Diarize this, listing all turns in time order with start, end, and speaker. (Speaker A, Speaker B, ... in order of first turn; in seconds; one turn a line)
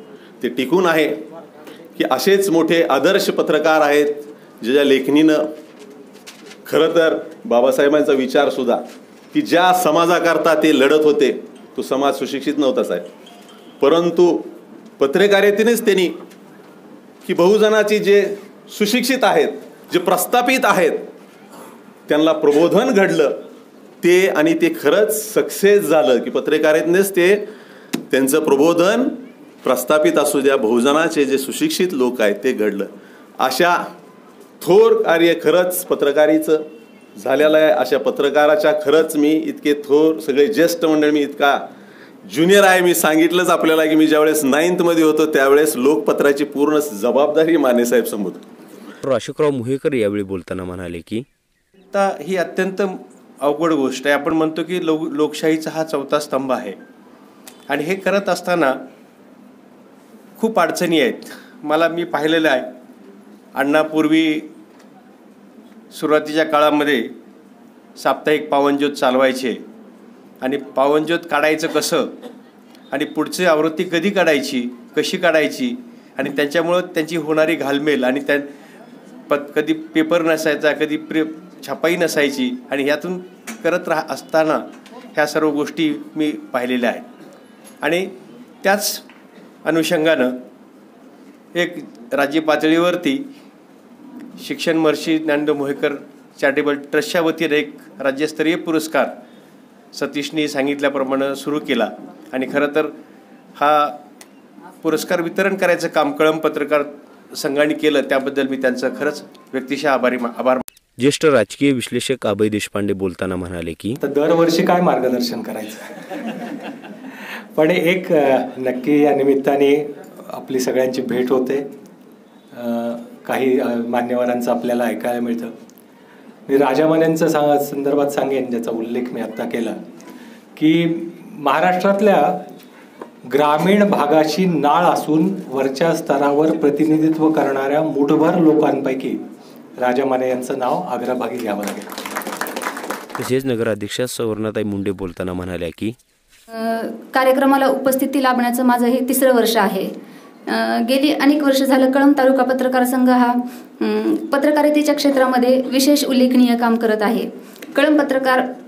Speaker A: 0.4-1.2
Speaker A: 2.0-5.4
Speaker A: 6.7-8.8
Speaker A: 9.3-13.1
Speaker A: 13.8-16.1
Speaker A: 17.2-21.1
Speaker A: 22.1-23.4
Speaker A: 24.0-27.4
Speaker A: 28.1-33.8
Speaker A: 34.6-36.6
Speaker A: 37.2-41.6
Speaker A: 42.3-48.4
Speaker B: 49.0-51.2
Speaker C: 51.9-56.8
Speaker C: 57.7-58.8
Speaker C: 60.4-62.7
Speaker C: 63.5-64.5
Speaker C: 65.9-67.1
Speaker C: 68.0-69.6
Speaker C: 70.4-72.1
Speaker C: 72.9-78.5
Speaker C: 79.3-87.1
Speaker C: 87.8-88.1
Speaker C: 88.6-89.0
Speaker C: 89.6-90.4
Speaker C: 91.5-93.2
Speaker C: 94.4-99.1
Speaker C: 99.9-102.9
Speaker C: 103.6-104.0
Speaker C: 104.8-110.6
Speaker B: 111.0-114.0
Speaker D: 114.0-115.9
Speaker D: 117.5-121.6
Speaker D: 122.5-125.5
Speaker D: 126.5-129.8
Speaker D: 130.6-132.4
Speaker D: 133.3-139.2
Speaker D: 139.8-141.9
Speaker B: 143.2-145.9
Speaker E: 146.5-149.9
Speaker E: 150.5-158.4